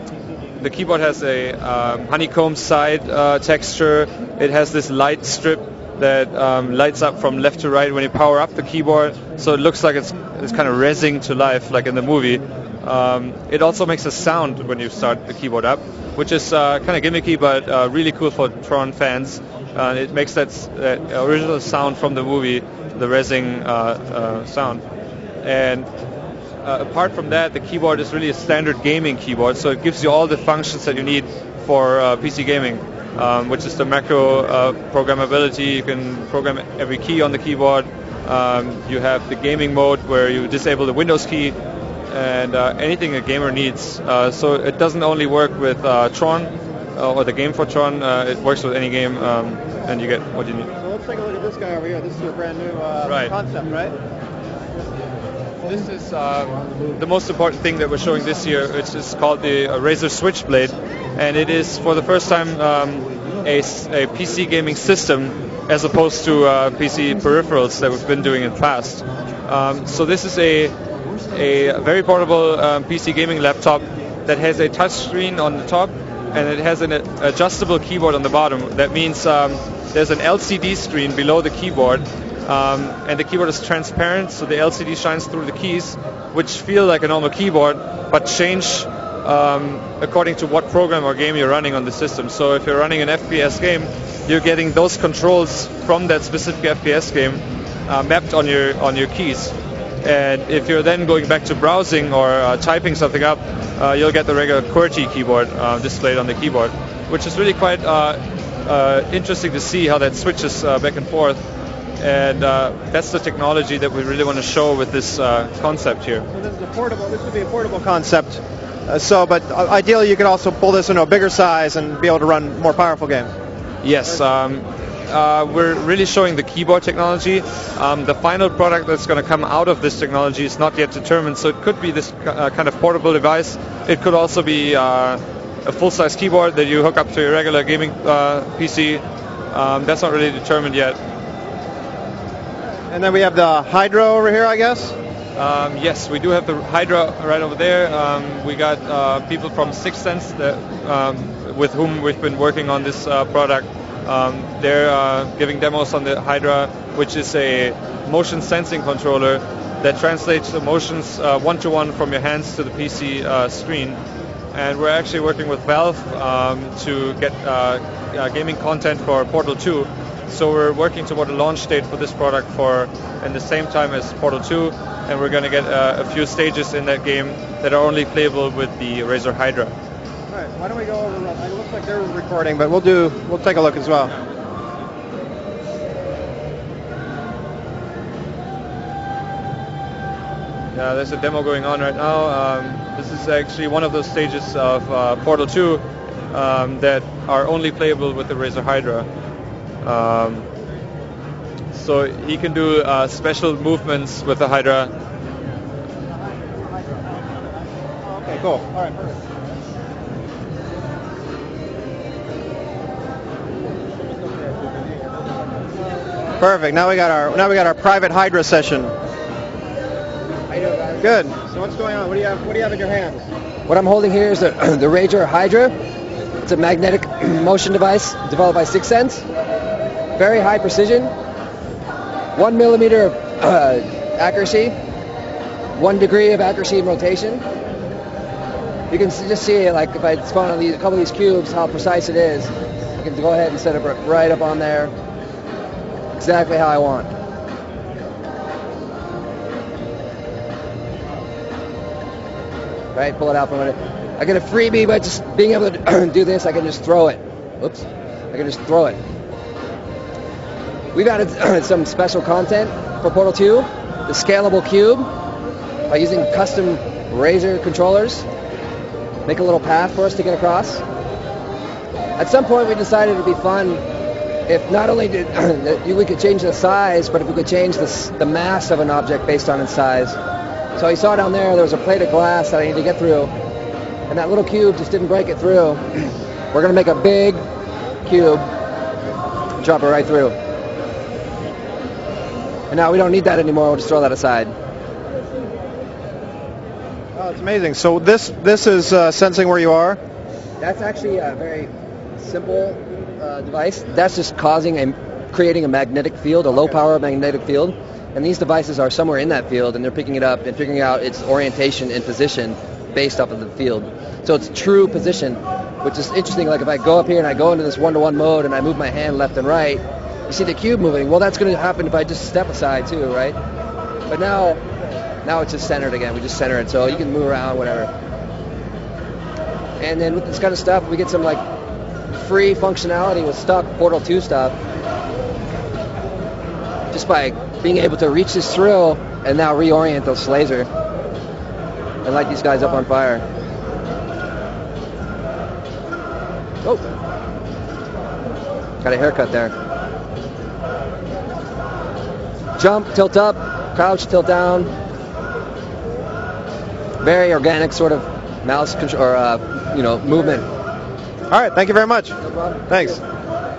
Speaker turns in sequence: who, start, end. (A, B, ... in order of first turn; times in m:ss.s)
0:00.6-0:24.8 A
0:25.4-0:25.9 A
0:26.6-0:41.6 A
0:42.1-0:50.7 A
0:50.8-0:53.9 B
0:53.0-0:53.3 A
0:55.6-1:10.7 A
1:11.3-1:51.4 A
1:52.0-1:56.2 A
1:56.3-2:03.3 B
2:03.8-2:21.0 A
2:22.9-2:24.9 B
2:25.4-2:44.0 A
2:44.5-2:59.7 A
3:00.3-3:04.1 B
3:10.7-3:19.1 A
3:19.8-3:20.5 A
3:21.7-3:24.9 A
3:28.1-3:29.1 B
3:36.4-3:38.9 B
3:40.6-3:43.3 B
3:43.7-3:45.7 C
3:46.4-3:49.2 C
3:50.2-3:51.1 C
3:52.3-3:54.7 C
3:55.8-3:57.4 C
3:58.9-4:04.9 C
4:06.1-4:07.1 C
4:12.9-4:19.0 C
4:20.9-4:25.1 C
4:25.9-4:28.2 C
4:29.2-4:30.8 C
4:32.2-4:33.8 C
4:34.5-4:40.2 C
4:40.7-4:43.3 C
4:44.1-4:47.4 C
4:48.0-4:48.5 C
4:49.6-4:50.4 C
4:52.7-4:54.5 C
4:57.1-5:00.0 B
5:00.6-5:23.4 C
5:24.1-5:24.6 C
5:25.2-5:27.9 C
5:29.8-5:31.4 C
5:32.1-5:34.6 C
5:36.9-5:40.7 C
5:42.0-5:43.2 C
5:48.8-5:49.5 C
5:52.6-5:54.7 C
5:57.0-6:00.5 C
6:01.3-6:03.0 B
6:02.4-6:02.6 C